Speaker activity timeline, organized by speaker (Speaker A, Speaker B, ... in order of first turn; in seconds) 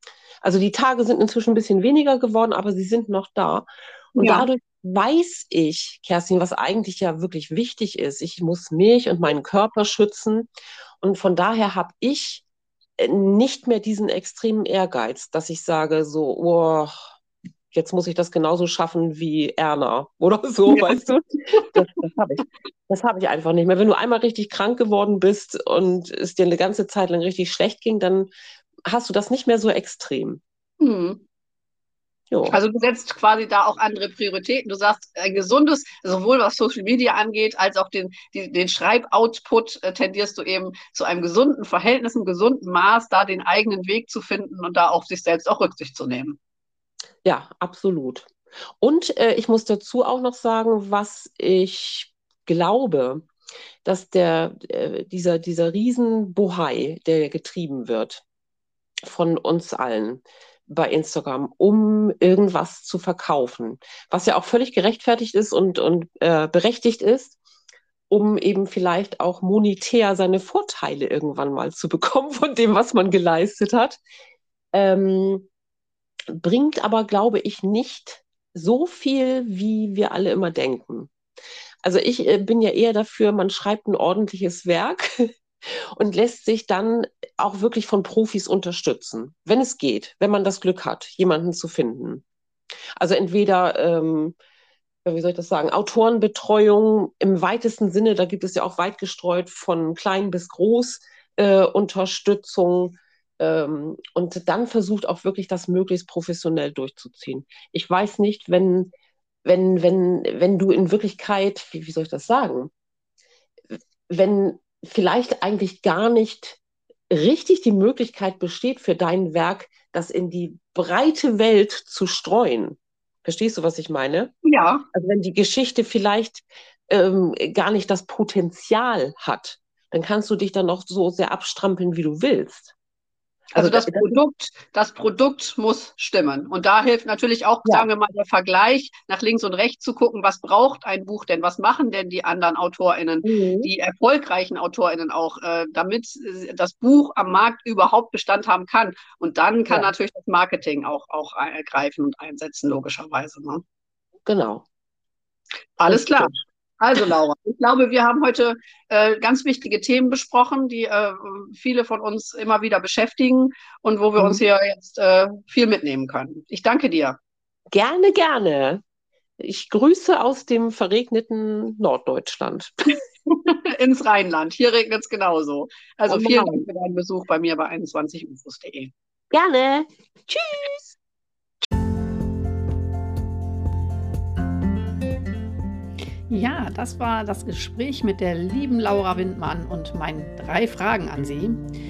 Speaker A: 0.4-10.5, 11.0-12.4, 13.0-16.9, 17.7-28.3, 28.9-30.4, 32.3-32.6, 47.2-53.3, 53.8-58.2, 59.0-67.4, 68.1-74.0, 74.7-75.5, 76.3-81.1, 81.8-85.3, 86.0-92.2, 93.0-94.4, 95.0-108.9, 109.5-112.7, 114.1-124.3, 124.9-132.7, 133.5-134.2, 143.2-143.7, 154.3-154.7, 155.9-156.4, 164.2-164.4, 167.7-168.8, 169.4-172.9, 176.1-176.7, 179.3-181.0
Speaker B: 4.2-4.5, 20.7-21.0, 30.8-31.2, 32.5-46.4, 124.5-124.9, 133.5-153.6, 155.8-167.2, 173.3-178.9
Speaker C: 186.3-191.6